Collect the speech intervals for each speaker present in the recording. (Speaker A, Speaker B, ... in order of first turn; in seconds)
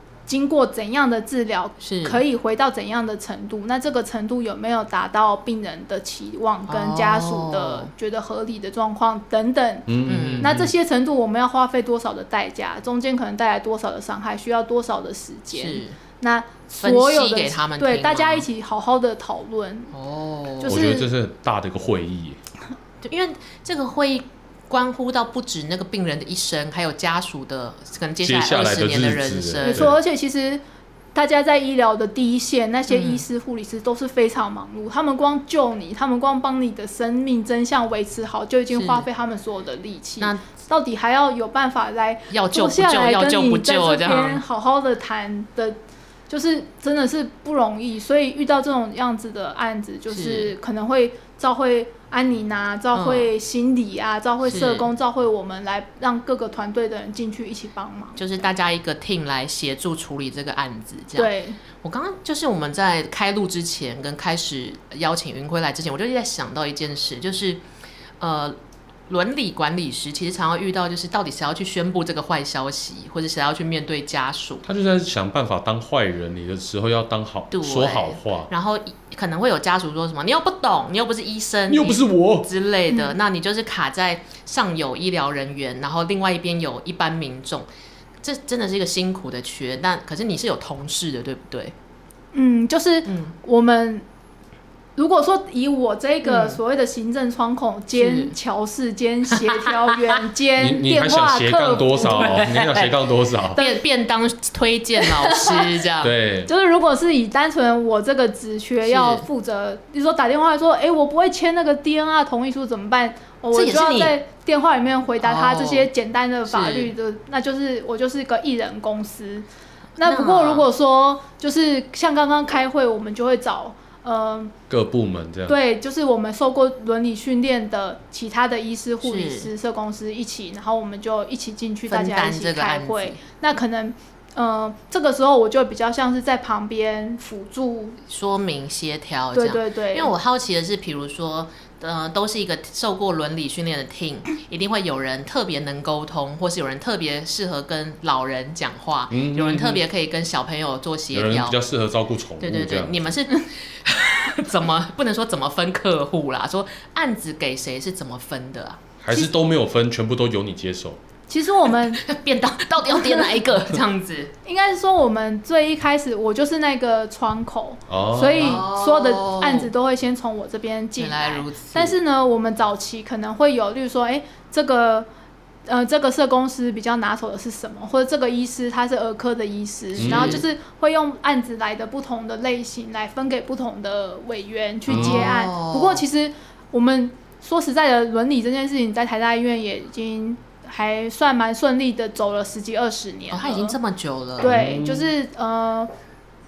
Speaker A: 0.3-19.9, 20.6-21.1, 29.6-30.6, 31.1-45.8, 46.3-58.3, 61.2-61.6, 82.9-83.2, 92.3-94.0, 95.0-102.5, 103.5-103.8, 105.0-105.8, 106.5-119.5, 120.0-124.5, 125.5-138.0, 139.3-140.1, 161.3-162.0, 163.1-163.4, 164.4-175.1, 175.7-193.8, 194.4-195.9
Speaker B: 1.8-2.2, 6.7-7.9, 10.1-10.5, 15.5-16.0, 16.8-18.5, 19.9-20.8, 23.0-29.9, 32.9-33.2, 38.7-39.1, 42.3-44.4, 50.1-50.5, 52.9-53.3, 54.5-54.9, 58.2-67.6, 68.2-68.6, 69.1-74.7, 77.5-87.7, 88.2-91.7, 93.1-93.3, 96.2-96.6, 97.9-98.3, 99.3-100.2, 102.0-102.9, 103.5-106.1, 108.8-109.3, 113.5-114.2, 115.2-115.9, 116.5-116.9, 120.0-120.7, 129.0-129.5, 131.9-133.2, 138.1-151.6, 152.4-158.8, 161.9-164.3, 168.4-169.7, 171.0-171.9, 180.0-180.4, 184.9-186.0, 193.3-194.6
Speaker C: 9.9-10.7, 20.6-22.4, 28.2-30.0, 74.6-78.5, 81.7-82.5, 100.6-103.6, 106.0-106.5, 124.7-125.6, 149.1-149.8, 151.1-153.1, 159.0-161.0, 167.9-168.6, 180.0-180.4, 184.9-185.3, 194.4-195.1